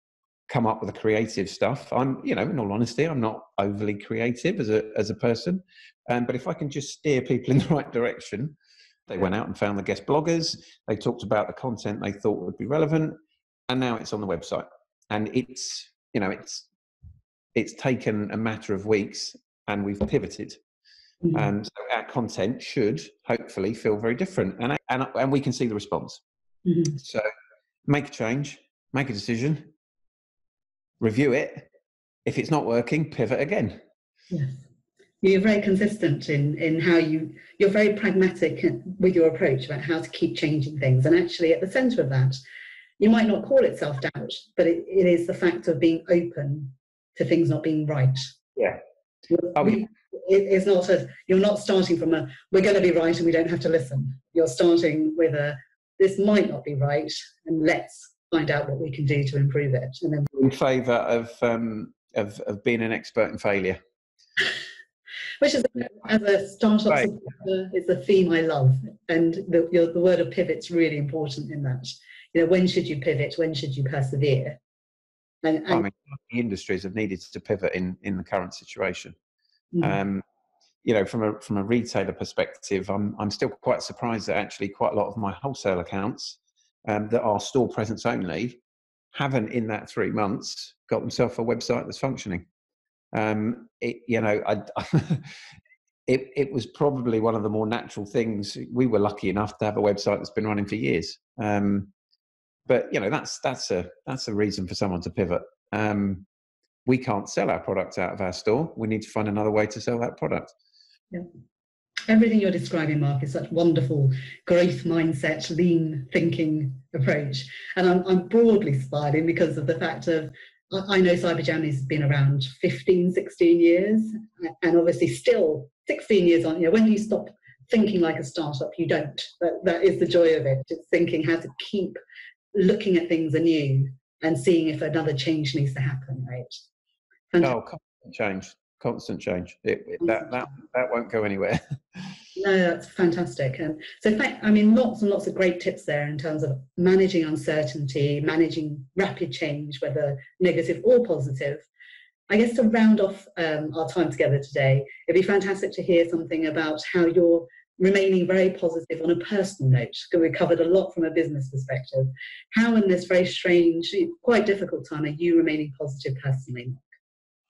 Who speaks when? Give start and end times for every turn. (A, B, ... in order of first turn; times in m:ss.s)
0:00.5-0:08.6 A
0:09.1-0:13.1 A
0:13.7-0:16.7 A
0:17.5-0:20.6 A
0:21.3-0:26.2 A
0:26.6-0:27.0 B
0:26.9-0:27.2 A
0:27.9-0:29.7 A
0:31.0-0:31.7 A
0:32.2-0:33.8 A
0:34.3-0:34.6 B
0:35.2-0:42.4 B
0:43.0-0:48.3 B
0:49.3-1:00.3 B
0:49.6-0:49.8 A
1:00.3-1:03.8 A
1:05.4-1:14.6 B
1:15.4-1:15.8 B
1:15.7-1:19.1 A
1:19.8-1:20.2 A
1:20.8-1:28.6 A
1:29.1-1:32.4 A
1:33.1-1:35.3 A
1:36.1-1:41.9 A
1:42.7-1:46.2 A
1:46.8-1:50.5 A
1:52.1-2:12.0 B
2:12.5-2:16.6 B
2:17.4-2:22.0 A
2:20.0-2:20.5 B
2:22.4-2:31.6 B
2:32.3-2:46.8 B